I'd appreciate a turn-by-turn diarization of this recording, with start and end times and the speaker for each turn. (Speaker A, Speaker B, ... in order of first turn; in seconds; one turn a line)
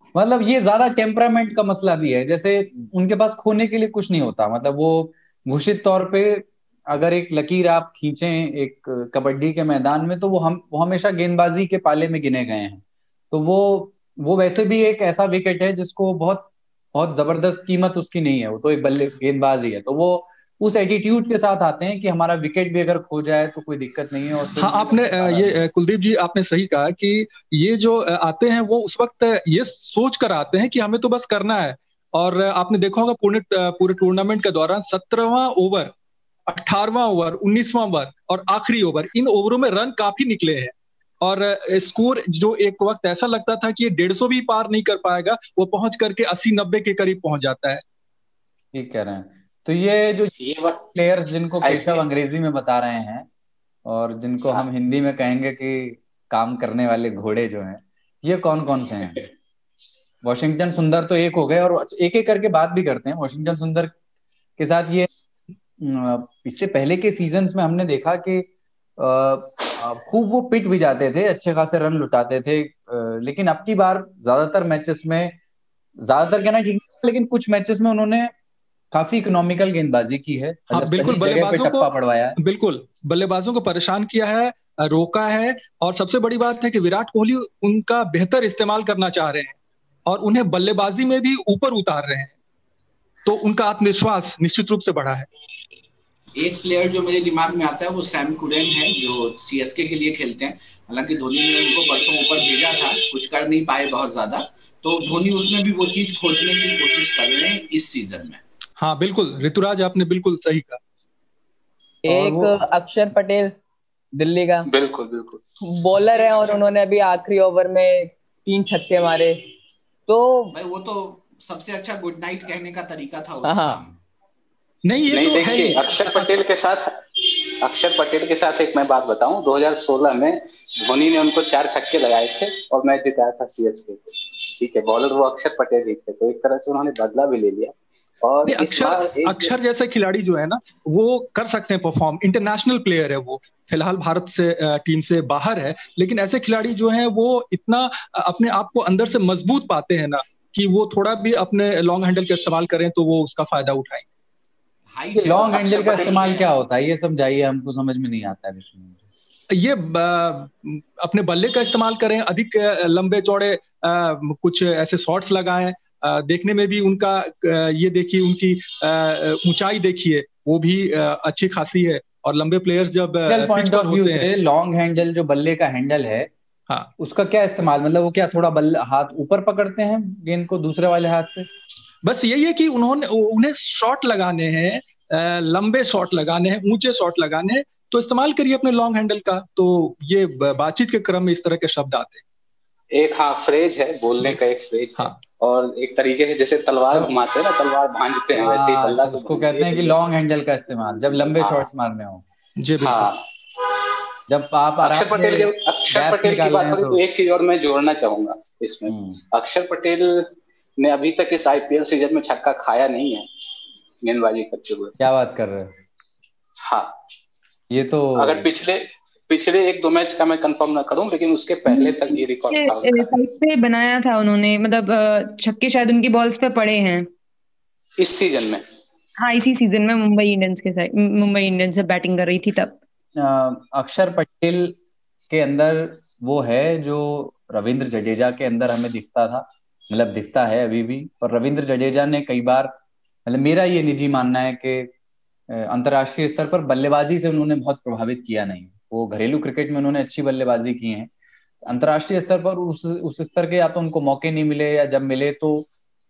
Speaker A: 0.1-25.6
Speaker B: 24.6-35.9
Speaker B: 36.5-47.8
Speaker A: 48.7-50.3
Speaker C: 50.4-50.8
Speaker A: 50.9-53.3
Speaker C: 51.6-52.0
Speaker A: 53.9-59.2
Speaker A: 60.2-63.9
Speaker A: 64.6-65.1
Speaker A: 65.8-68.5
Speaker A: 69.0-75.3
Speaker A: 76.0-78.3
Speaker A: 78.9-82.4
Speaker B: 80.7-89.6
Speaker B: 90.1-92.3
Speaker B: 93.2-95.3
Speaker D: 96.4-108.4
Speaker B: 108.8-110.8
Speaker E: 112.0-113.5
Speaker A: 112.1-112.6
Speaker E: 114.2-114.7
Speaker C: 114.7-115.4
Speaker E: 115.6-119.4
Speaker D: 116.1-116.6
Speaker E: 120.1-120.6
Speaker D: 120.5-124.0
Speaker E: 123.4-123.8
Speaker B: 124.9-126.4
Speaker C: 125.1-139.5
Speaker B: 138.5-154.1
Speaker D: 154.9-156.4
Speaker A: 155.1-159.0
Speaker C: 155.6-156.4
Speaker B: 159.5-174.3
Speaker A: 173.3-176.3
Speaker A: 177.0-181.5
Speaker B: 182.0-192.2
Speaker C: 192.9-200.0
Speaker A: 198.3-202.2
Speaker C: 201.1-201.7
Speaker B: 202.6-203.1
Speaker C: 202.8-203.2
Speaker A: 204.3-207.0
Speaker C: 204.8-213.3
Speaker A: 208.9-209.2
Speaker C: 214.0-215.0
Speaker A: 215.0-215.7
Speaker C: 216.6-216.9
Speaker A: 217.7-218.5
Speaker C: 218.2-223.1
Speaker F: 221.7-227.1
Speaker C: 228.0-228.6
Speaker F: 229.2-232.8
Speaker A: 233.2-234.8
Speaker A: 235.3-242.8
Speaker A: 243.3-244.9
Speaker A: 245.5-251.1
Speaker A: 251.7-255.7